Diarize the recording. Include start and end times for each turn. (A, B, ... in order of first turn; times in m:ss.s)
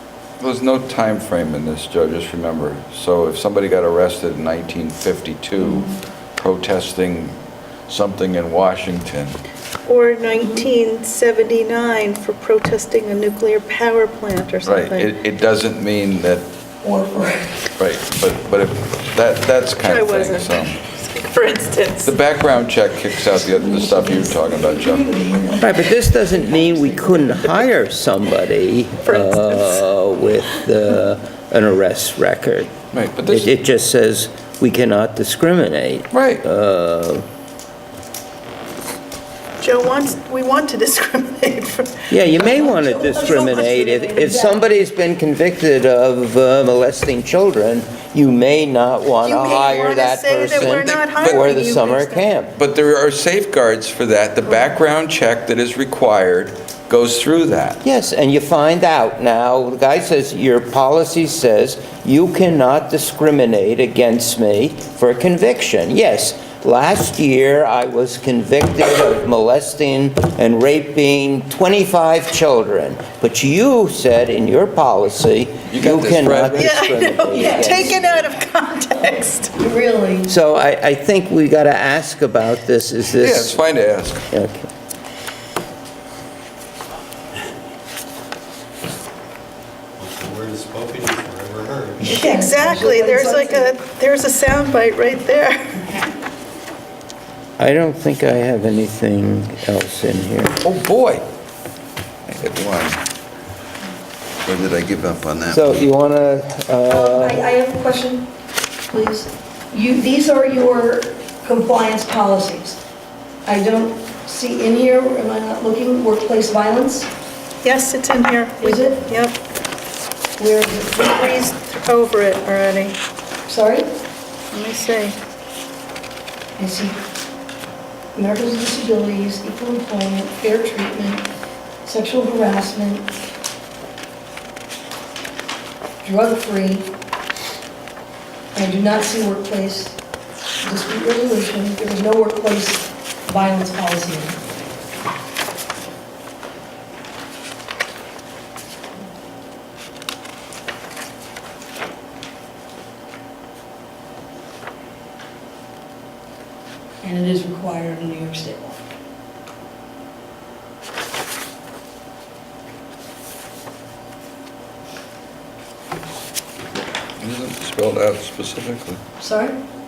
0:00.4-0:07.4 A
0:05.6-0:06.0 B
0:07.9-0:09.4 A
0:09.9-0:15.1 C
0:10.4-0:10.7 B
0:14.6-0:16.4 A
0:16.8-0:17.6 B
0:17.8-0:20.8 A
0:19.8-0:22.1 C
0:22.0-0:25.1 A
0:23.4-0:26.1 B
0:25.6-0:37.3 D
0:29.0-0:29.9 C
0:32.9-0:33.5 A
0:36.1-0:36.4 A
0:39.6-0:42.1 C
0:42.1-0:52.5 D
0:42.3-0:44.7 B
0:49.2-0:52.4 C
0:50.8-0:51.5 A
0:52.6-0:57.8 A
0:57.8-1:18.1 D
1:15.7-1:16.8 A
1:16.6-1:19.5 C
1:17.4-1:17.9 B
1:19.6-1:20.3 B
1:20.3-1:23.6 D
1:23.2-1:24.3 A
1:24.3-1:24.7 D
1:30.0-1:32.2 E
1:32.0-1:33.7 B
1:32.0-1:35.9 C
1:37.6-1:40.6 D
1:40.6-1:41.2 A
1:42.3-1:43.0 A
1:44.4-1:45.8 A
1:45.5-1:47.4 D
1:46.9-1:48.3 B
1:48.9-1:52.8 B
1:53.5-1:57.1 B
1:57.6-1:59.4 C
1:58.6-1:59.1 B
2:00.4-2:01.4 B
2:01.2-2:03.0 C
2:03.5-2:03.9 B
2:04.5-2:05.2 C
2:06.6-2:07.0 B
2:08.2-2:11.3 B
2:11.8-2:13.1 B
2:16.0-2:16.9 B
2:18.5-2:20.0 B
2:20.6-2:24.4 B
2:37.0-2:38.8 B
2:47.2-2:49.0 A
2:49.2-2:49.6 B